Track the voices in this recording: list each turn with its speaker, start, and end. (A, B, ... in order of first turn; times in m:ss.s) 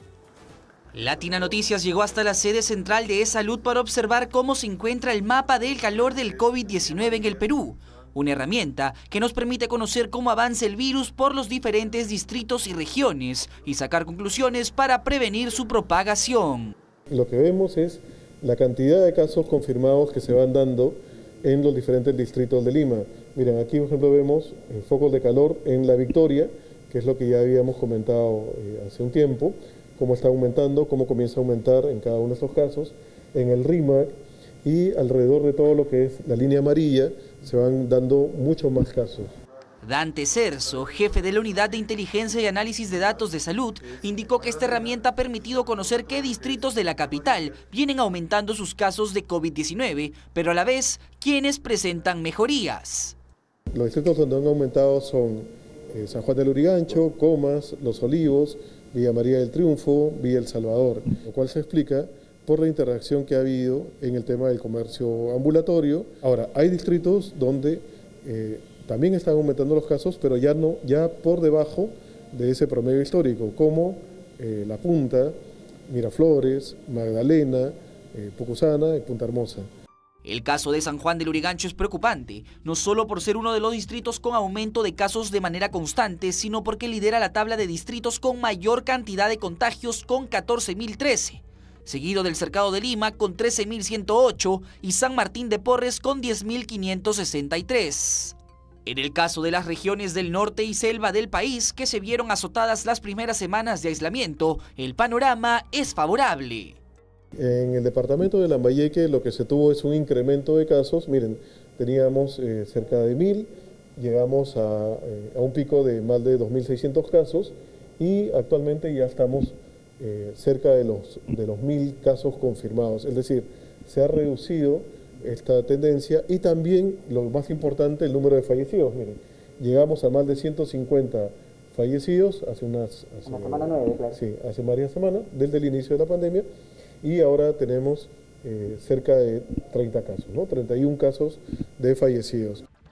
0:00.9-0:16.7 A
0:17.1-0:34.1 B
0:34.6-0:39.3 B
0:39.8-0:53.2 A
0:53.7-1:15.4 B
1:15.9-1:19.7 B
1:20.2-1:46.8 A
1:47.4-2:16.4 B
2:13.3-2:14.2 A
2:17.0-2:22.7 B